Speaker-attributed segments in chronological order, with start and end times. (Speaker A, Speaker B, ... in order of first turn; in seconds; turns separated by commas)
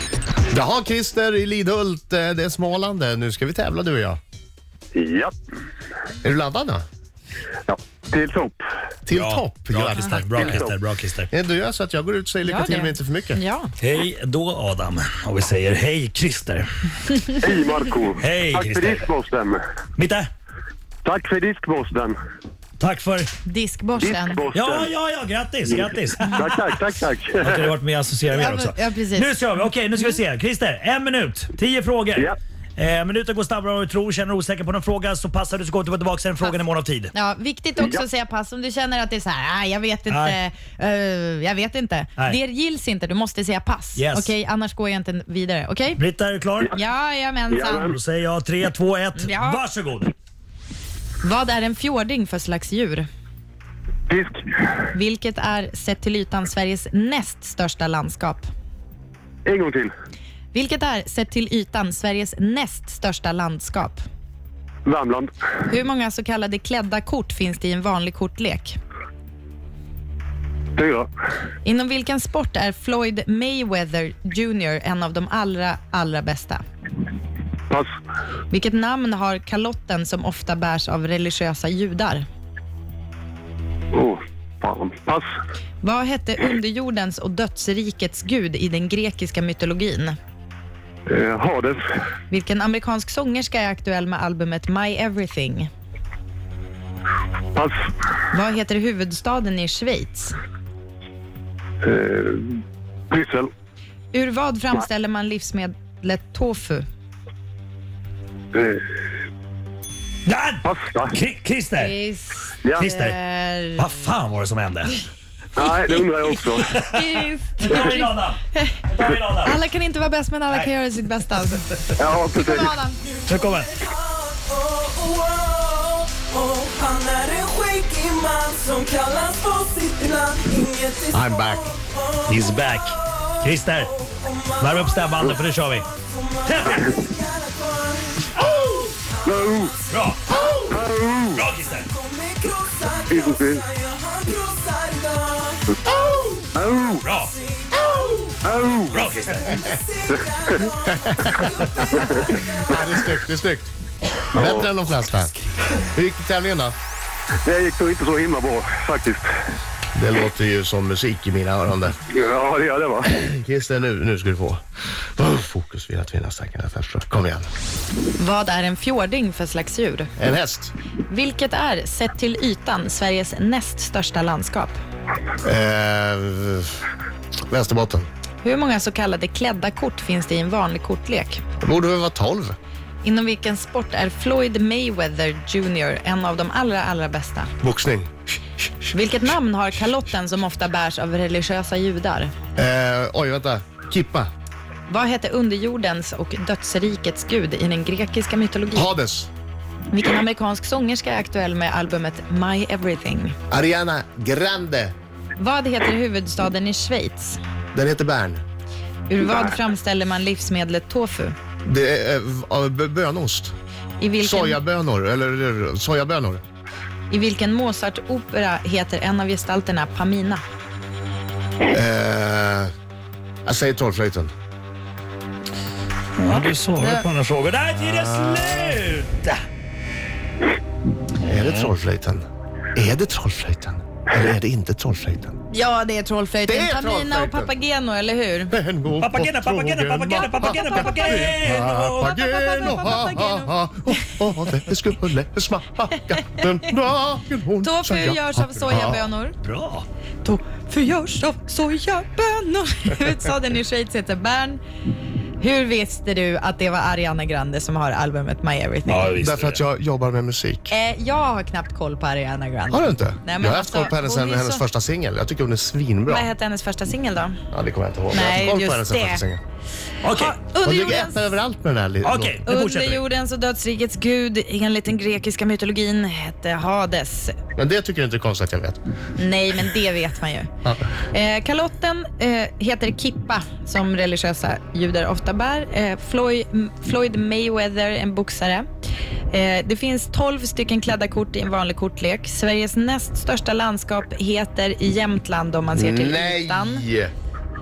Speaker A: 0.5-4.2, Speaker B: 4.9-5.3, Speaker A: 6.2-6.8, Speaker B: 7.7-8.7, Speaker A: 9.1-10.7, Speaker C: 9.1-11.3, Speaker B: 10.4-10.7, Speaker A: 11.3-13.4, Speaker D: 12.4-13.7, Speaker C: 13.8-17.3, Speaker B: 17.4-19.6, Speaker C: 18.2-19.1, Speaker C: 20.0-20.3, Speaker B: 21.0-22.2, Speaker C: 22.8-23.3, Speaker D: 23.4-24.4, Speaker B: 24.0-24.9, Speaker C: 24.5-26.7, Speaker B: 26.4-27.7, Speaker C: 27.4-37.1, Speaker D: 28.3-29.3, Speaker D: 37.1-46.0, Speaker C: 40.1-40.4, Speaker C: 44.0-44.3, Speaker C: 46.0-46.8, Speaker D: 46.7-48.0, Speaker B: 47.5-48.0, Speaker C: 47.8-50.1, Speaker D: 49.2-49.6, Speaker D: 51.2-53.1, Speaker B: 54.1-54.4, Speaker D: 54.9-58.5, Speaker B: 59.5-59.9, Speaker D: 60.5-64.0, Speaker B: 64.8-65.3, Speaker D: 65.7-68.8, Speaker B: 70.8-71.1, Speaker D: 71.6-76.6, Speaker D: 78.5-82.3, Speaker B: 83.9-85.3, Speaker D: 85.8-90.2, Speaker B: 91.1-91.8, Speaker D: 92.3-95.7, Speaker D: 98.3-100.4, Speaker B: 101.8-102.6, Speaker B: 103.1-103.5, Speaker D: 104.1-106.8, Speaker B: 108.5-108.9, Speaker C: 110.2-111.9, Speaker B: 110.6-111.2, Speaker D: 111.8-113.9, Speaker C: 112.8-113.2, Speaker C: 113.8-115.0, Speaker B: 115.6-116.8, Speaker C: 115.9-119.6, Speaker D: 116.8-118.8, Speaker D: 119.4-123.0, Speaker B: 122.0-122.8, Speaker C: 123.3-123.7, Speaker E: 123.8-132.7, Speaker A: 131.1-131.7, Speaker C: 132.3-133.9, Speaker E: 134.0-135.1, Speaker C: 134.6-135.9, Speaker E: 135.9-140.7, Speaker C: 136.4-136.8, Speaker B: 139.2-139.8, Speaker C: 139.9-140.4, Speaker B: 140.7-141.5, Speaker C: 141.3-141.9, Speaker E: 141.8-146.5, Speaker B: 143.1-143.6, Speaker B: 146.5-147.1, Speaker C: 147.0-147.3, Speaker E: 147.5-148.4, Speaker B: 148.4-149.0, Speaker C: 148.9-149.6, Speaker E: 149.0-152.7, Speaker A: 151.0-151.4, Speaker B: 151.7-152.4, Speaker A: 152.5-153.7, Speaker A: 154.3-156.8, Speaker B: 154.3-154.7, Speaker B: 157.4-159.3, Speaker A: 159.9-162.0, Speaker B: 162.1-163.1, Speaker A: 163.1-164.6, Speaker A: 165.2-167.5, Speaker D: 168.2-170.1, Speaker A: 170.2-170.7, Speaker D: 171.1-174.8, Speaker A: 175.4-176.8, Speaker A: 177.5-178.1, Speaker D: 178.4-181.4, Speaker A: 181.6-182.6, Speaker D: 183.0-187.5, Speaker A: 187.6-188.1, Speaker D: 188.9-192.3, Speaker A: 192.6-194.3, Speaker D: 194.9-198.9, Speaker A: 198.7-199.3, Speaker D: 199.9-203.4, Speaker A: 203.5-204.9, Speaker D: 205.4-207.4, Speaker A: 207.7-208.4, Speaker D: 209.1-211.3, Speaker A: 211.7-213.5, Speaker D: 214.0-214.6, Speaker A: 214.2-216.4, Speaker D: 217.1-220.4, Speaker A: 221.7-222.7, Speaker A: 223.4-224.3, Speaker C: 226.2-229.4, Speaker D: 226.8-227.0, Speaker A: 227.9-228.8, Speaker A: 231.2-232.2, Speaker C: 231.2-231.7, Speaker A: 232.8-235.4, Speaker D: 235.5-238.6, Speaker A: 236.5-237.5, Speaker A: 238.5-249.0, Speaker C: 239.0-242.2, Speaker D: 240.4-241.2, Speaker D: 242.0-244.1, Speaker D: 247.6-249.4, Speaker C: 249.4-249.9, Speaker D: 250.2-254.6, Speaker D: 255.4-259.1, Speaker C: 258.9-259.6, Speaker A: 259.2-260.7, Speaker D: 260.7-264.6, Speaker A: 262.7-266.3, Speaker D: 266.1-267.4, Speaker A: 267.5-269.4, Speaker D: 268.1-269.2, Speaker C: 270.0-270.4, Speaker D: 270.1-271.3, Speaker A: 270.6-272.4, Speaker C: 272.0-273.0, Speaker D: 272.4-277.4, Speaker A: 277.6-278.8, Speaker D: 279.2-288.7, Speaker D: 289.3-296.9, Speaker A: 295.7-297.1